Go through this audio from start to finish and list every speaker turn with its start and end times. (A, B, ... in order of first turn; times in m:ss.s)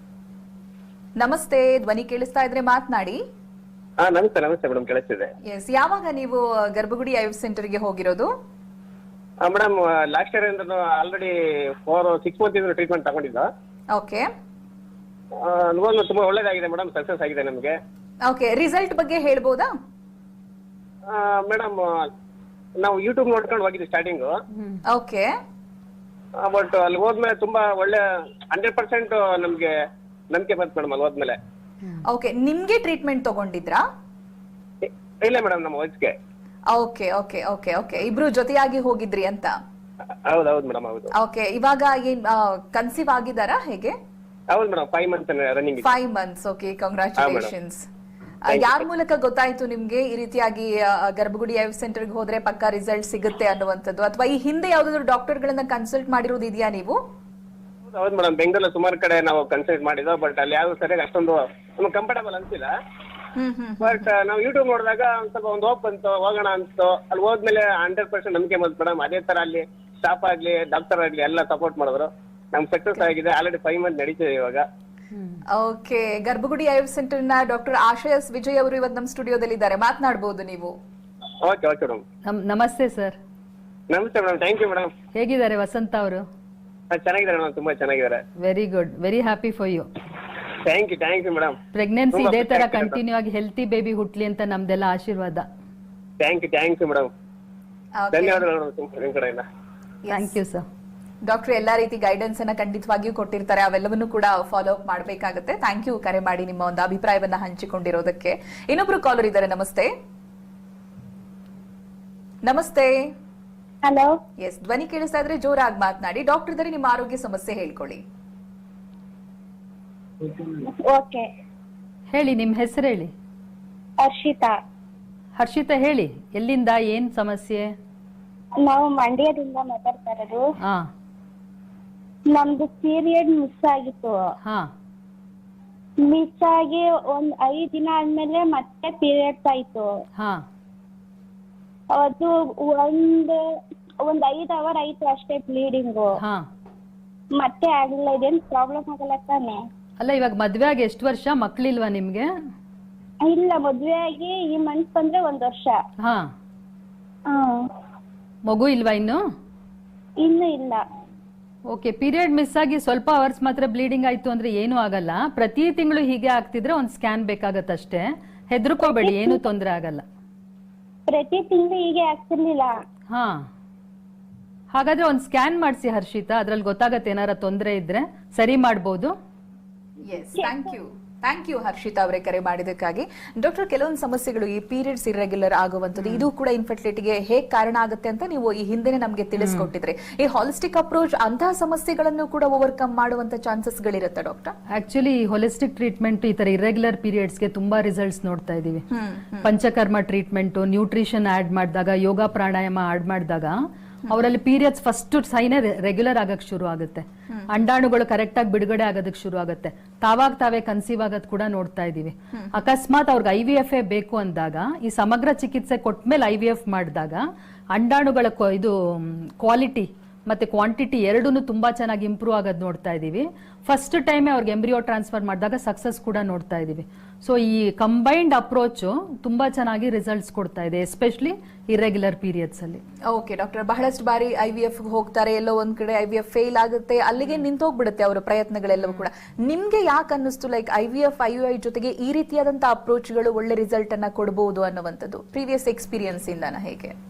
0:01.2-0:03.2 A
0:04.0-0:05.3 B
0:05.5-0:08.3 A
0:09.4-0:13.5 B
0:13.9-0:14.3 A
0:15.3-0:17.8 B
0:18.2-0:19.7 A
0:21.1-0:22.1 B
0:22.8-0:24.4 B
0:24.5-0:24.8 C
0:24.8-0:25.3 A
0:26.4-0:29.7 B
0:30.3-0:31.4 B
0:32.0-0:33.8 A
0:34.8-0:36.2 B
0:36.7-0:39.6 A
0:40.3-0:41.1 B
0:41.1-0:44.0 A
0:44.5-0:45.9 B
0:45.8-0:47.9 A
0:47.2-0:47.5 B
0:48.4-0:57.0 A
0:48.5-0:48.8 B
0:57.9-1:02.7 B
1:03.4-1:04.1 A
1:03.8-1:14.6 B
1:15.1-1:15.4 C
1:15.5-1:20.8 A
1:21.4-1:22.0 B
1:22.3-1:23.2 C
1:23.9-1:24.9 B
1:25.2-1:26.2 C
1:26.9-1:28.2 B
1:28.4-1:29.9 C
1:30.5-1:31.6 B
1:31.7-1:35.5 C
1:32.1-1:33.0 B
1:36.2-1:37.1 B
1:38.0-1:38.5 A
1:38.1-1:39.4 B
1:40.0-1:40.3 A
1:40.1-1:40.6 C
1:41.2-1:49.9 A
1:52.4-1:53.1 A
1:53.8-1:54.2 D
1:54.4-1:58.0 A
2:00.2-2:01.3 D
2:02.1-2:03.1 C
2:04.0-2:04.6 D
2:05.4-2:07.7 C
2:08.6-2:10.5 D
2:10.6-2:10.9 C
2:12.3-2:14.4 D
2:14.4-2:14.7 C
2:16.0-2:20.0 D
2:20.2-2:20.4 C
2:21.9-2:23.4 D
2:24.0-2:26.2 D
2:26.2-2:26.4 C
2:27.4-2:29.6 D
2:30.0-2:32.3 C
2:33.2-2:35.8 D
2:36.0-2:36.3 C
2:37.3-2:37.7 D
2:38.5-2:39.2 C
2:40.2-2:40.8 D
2:41.7-2:50.0 C
2:48.8-2:49.4 D
2:51.1-2:52.8 D
2:53.1-2:53.5 C
2:54.7-2:59.1 C
3:00.0-3:14.5 A
3:06.0-3:06.2 C
3:09.4-3:09.7 C
3:14.7-3:18.8 C
3:18.9-3:19.5 A
3:19.4-3:52.8 C
3:53.1-4:06.9 A